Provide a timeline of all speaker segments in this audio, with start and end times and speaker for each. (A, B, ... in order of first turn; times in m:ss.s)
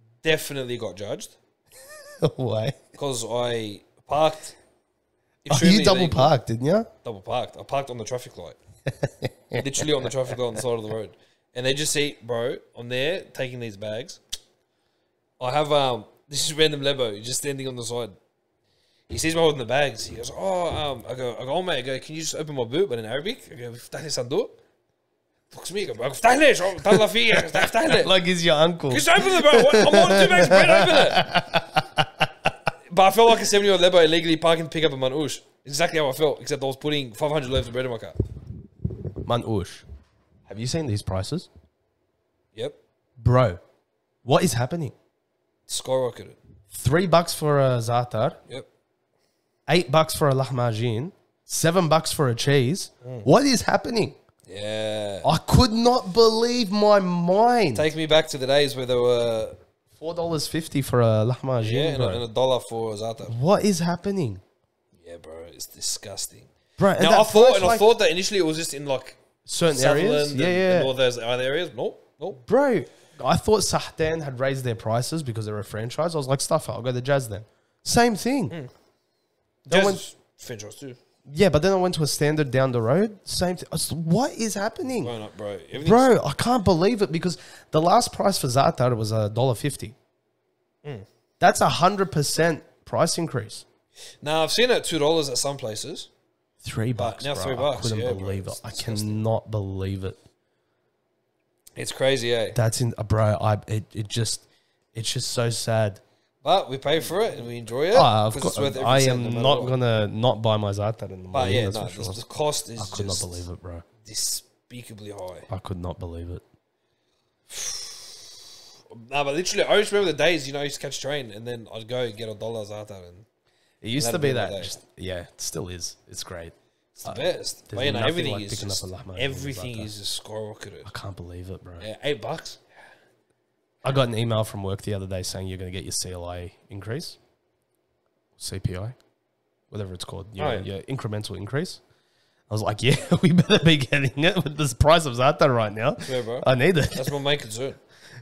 0:00.2-0:01.4 A
0:02.2-0:02.8 B
0:02.9-0:04.6 A
0:05.4-0:06.3 A
0:05.5-0:06.9 B
0:07.0-0:08.6 A
0:08.9-0:09.6 B
0:09.5-0:14.2 A
0:15.4-0:18.1 A
0:19.1-0:24.6 A
0:25.5-0:28.1 A
0:26.8-0:32.5 B
0:28.9-0:31.3 A
0:32.9-0:38.2 A
0:39.2-0:39.8 B
0:40.5-0:41.5 B
0:43.2-0:43.6 B
0:44.2-0:44.9 B
0:45.7-0:46.4 A
0:46.7-0:48.4 B
0:49.7-0:54.2 B
0:54.5-0:55.3 A
0:55.2-0:57.9 B
0:57.7-0:59.6 A
1:00.0-1:02.2 B
1:01.6-1:03.4 A
1:03.3-1:04.4 B
1:05.0-1:12.4 A
1:06.8-1:07.9 B
1:09.4-1:10.9 B
1:12.4-1:18.5 B
1:19.6-1:20.0 B
1:19.7-1:21.0 A
1:21.3-1:25.1 B
1:25.0-1:26.1 A
1:25.7-1:30.0 B
1:31.4-1:33.6 B
1:34.2-1:36.1 A
1:36.6-1:40.2 B
1:37.0-1:39.2 A
1:41.8-1:42.6 A
1:42.5-1:46.0 B
1:46.4-1:49.8 A
1:47.9-1:52.2 B
1:51.3-1:53.5 A
1:52.8-1:53.8 B
1:54.0-1:55.5 A
1:55.5-1:56.4 B
1:57.5-1:58.3 A
1:58.9-2:03.2 A
2:03.8-2:09.9 B
2:04.0-2:04.7 A
2:06.9-2:10.9 A
2:10.8-2:11.8 B
2:11.8-2:12.6 A
2:13.8-2:17.2 B
2:18.4-2:19.0 B
2:19.7-2:21.8 B
2:20.4-2:20.7 A
2:22.5-2:27.2 B
2:26.0-2:27.8 A